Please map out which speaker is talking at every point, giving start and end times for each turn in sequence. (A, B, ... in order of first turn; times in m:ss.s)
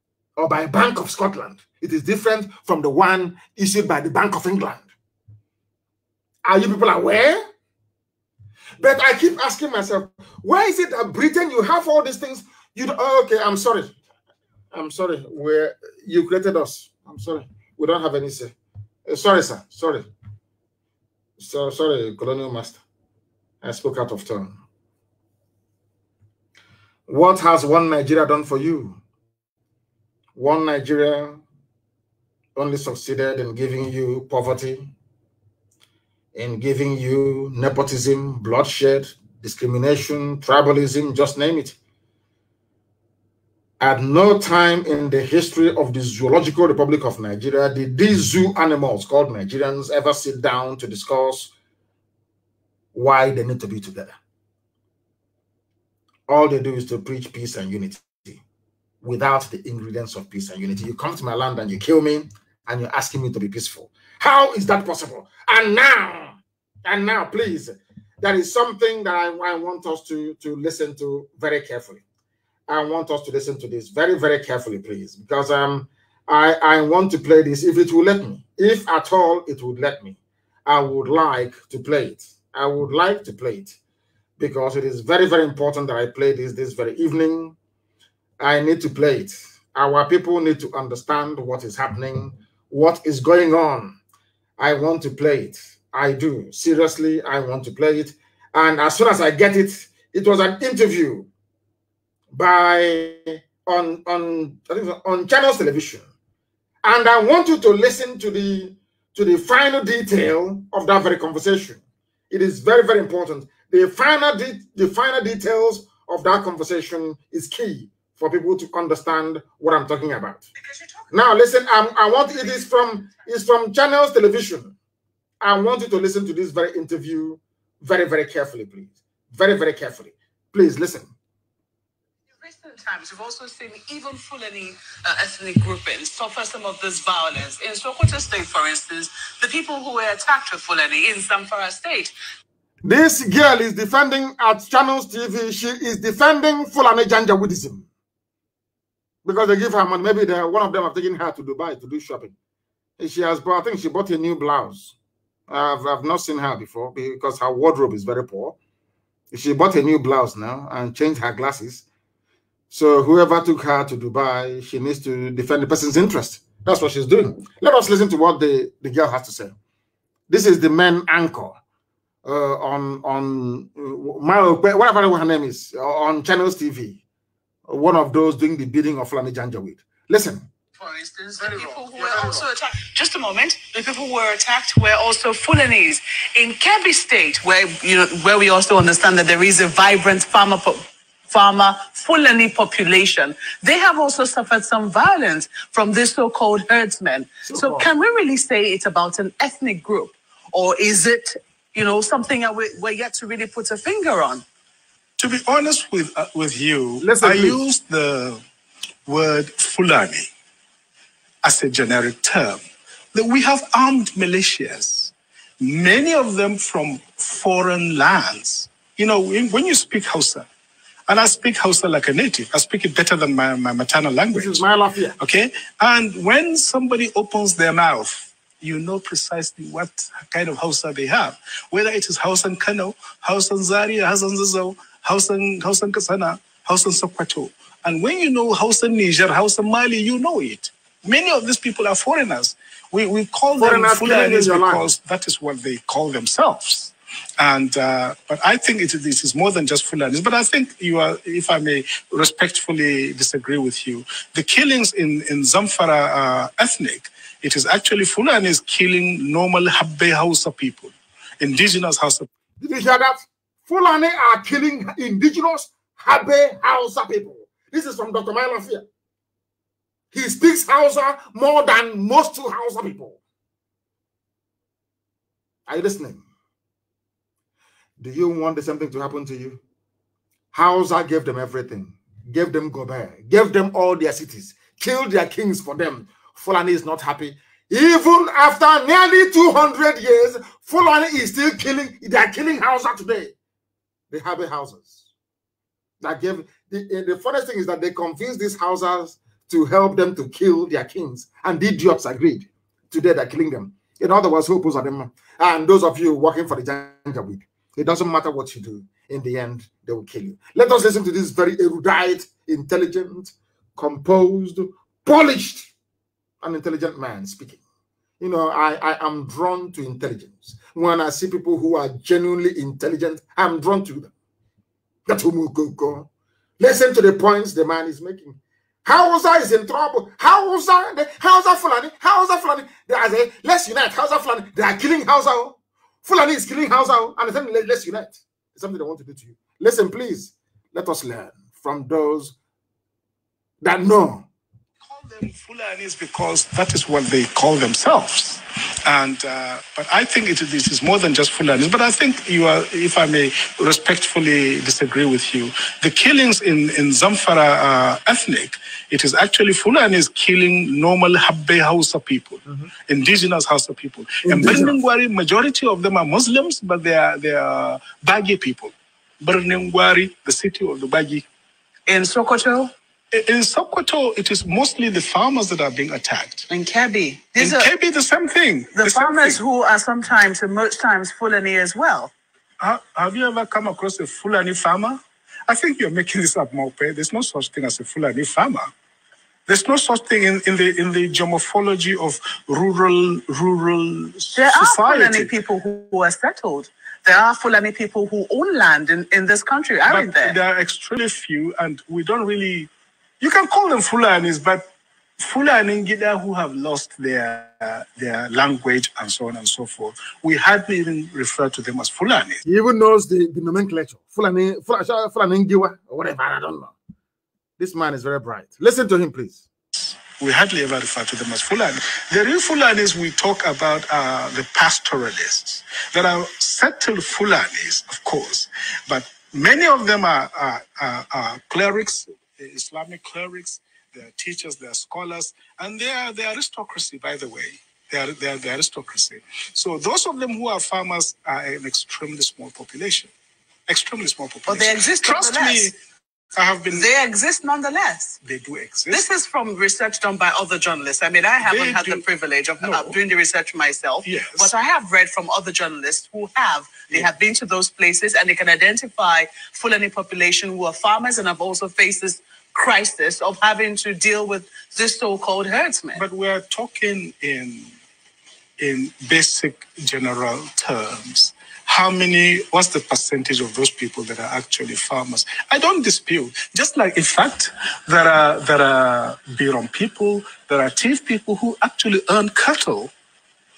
0:00.4-0:04.9 A
0:06.4-0:07.4 A
0:08.8-0:14.0 A
0:14.7-0:18.5 A
0:19.1-0:20.1 A
0:21.4-0:22.8 A
0:23.6-0:24.6 A
0:27.1-0:29.0 A
0:30.4-0:31.4 A
0:32.6-0:34.9 A
0:36.3-0:41.8 A
0:43.8-0:51.5 A
0:52.9-0:54.2 A
0:56.3-0:58.4 A
0:59.0-1:12.0 A
1:12.7-1:23.8 A
1:24.4-1:27.6 A
1:28.4-1:34.0 A
1:34.6-1:41.3 A
1:42.3-1:46.1 A
1:46.8-2:00.5 A
2:01.1-2:04.7 A
2:05.4-2:11.1 A
2:12.4-2:22.1 B
2:22.8-2:27.9 A
2:29.2-2:32.4 A
2:33.0-2:35.0 A
2:35.5-2:38.6 A
2:39.3-2:41.8 A
2:42.7-2:49.5 A
2:50.3-2:51.6 A
2:52.2-2:57.0 A
2:57.7-3:00.5 A
3:00.8-3:24.4 B
3:01.4-3:02.4 A
3:17.4-3:17.9 A
3:25.2-3:28.4 C
3:27.0-3:27.6 A
3:29.1-3:30.3 C
3:31.4-3:32.6 C
3:33.1-3:40.5 C
3:41.1-3:44.6 C
3:44.3-3:45.2 A
3:45.2-4:22.3 C
4:03.6-4:04.9 A
4:22.6-4:28.8 A
4:30.1-4:33.2 A
4:35.7-4:36.2 A
4:38.0-4:39.6 A
4:40.5-4:53.3 A
4:54.1-4:55.0 A
4:56.0-5:15.7 A
5:16.4-5:17.6 A
5:18.2-5:24.1 A
5:25.1-5:42.4 A
5:43.6-5:44.3 A
5:44.8-6:11.3 C
6:04.2-6:04.7 A
6:11.9-6:12.7 B
6:13.1-6:16.5 C
6:16.5-6:17.7 B
6:17.4-6:19.4 C
6:18.7-6:22.1 B
6:22.6-6:28.7 C
6:29.5-6:35.3 C
6:34.4-6:40.4 B
6:39.8-6:44.6 C
6:45.2-6:52.4 C
6:52.4-6:56.7 A
6:57.6-6:59.4 A
7:00.2-7:23.1 C
7:23.7-7:25.7 C
7:24.5-7:25.7 B
7:26.4-7:26.9 C
7:26.7-7:28.2 B
7:28.2-7:29.0 C
7:28.9-7:46.0 B
7:31.4-7:32.0 C
7:32.6-7:33.0 C
7:34.0-7:34.5 C
7:45.9-7:47.7 C
7:48.6-8:02.9 C